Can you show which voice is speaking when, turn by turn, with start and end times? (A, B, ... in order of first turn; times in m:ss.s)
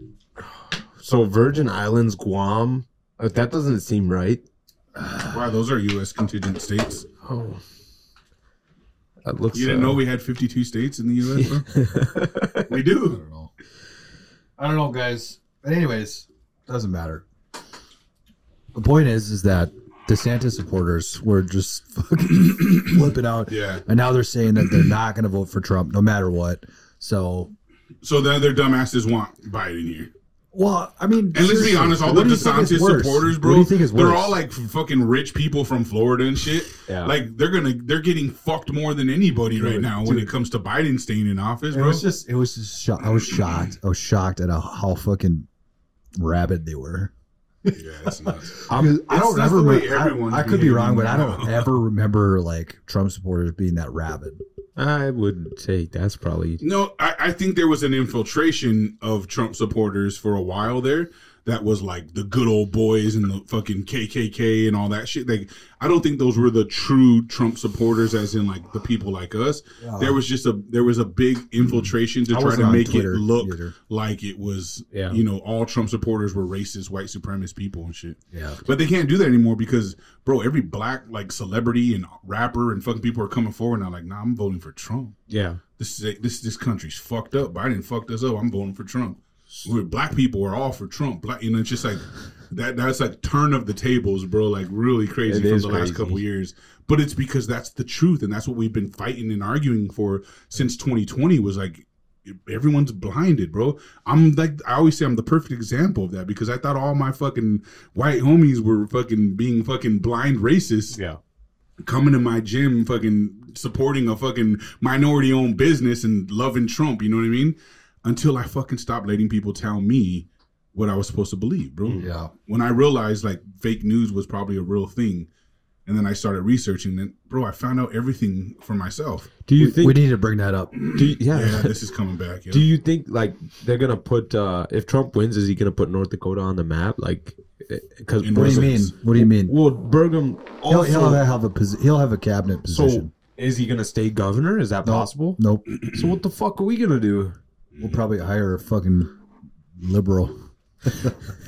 0:00.4-0:04.4 A
0:05.0-0:05.4 B
0:05.3-0:07.1 C
0:07.2-0:07.6 A
0:09.2-0:10.0 A
0:09.5-0:11.7 C
0:11.4-0:12.7 A
0:12.7-0:13.2 C
0:13.0-0:13.5 B
0:14.6-0:17.3 B
0:18.7-0:27.5 B
0:23.5-0:23.8 C
0:28.0-0:30.1 C
0:30.5-0:34.4 B
0:31.3-0:42.0 C
0:36.9-0:37.1 A
0:39.6-0:40.3 B
0:41.7-0:45.5 B
0:43.3-0:43.7 C
0:46.2-0:47.1 B
0:47.6-0:54.4 B
0:47.7-0:51.7 C
0:54.8-0:56.6 A
0:56.6-1:25.2 C
1:09.8-1:10.2 B
1:12.3-1:13.7 B
1:14.9-1:15.2 A
1:18.3-1:18.6 B
1:25.3-1:25.6 A
1:25.8-1:51.0 C
1:35.3-1:36.2 A
1:50.9-1:51.2 A
1:51.8-2:05.3 C
2:02.0-2:02.3 B
2:05.9-2:09.3 C
2:09.5-2:10.0 A
2:09.6-2:10.8 B
2:10.7-2:12.7 C
2:10.9-2:11.8 A
2:12.5-2:21.2 A
2:18.2-2:18.9 C
2:18.3-2:19.6 B
2:20.7-2:23.1 B
2:22.7-2:27.4 A
2:24.8-2:25.7 B
2:27.7-2:28.0 C
2:27.8-2:29.2 B
2:29.8-2:31.3 B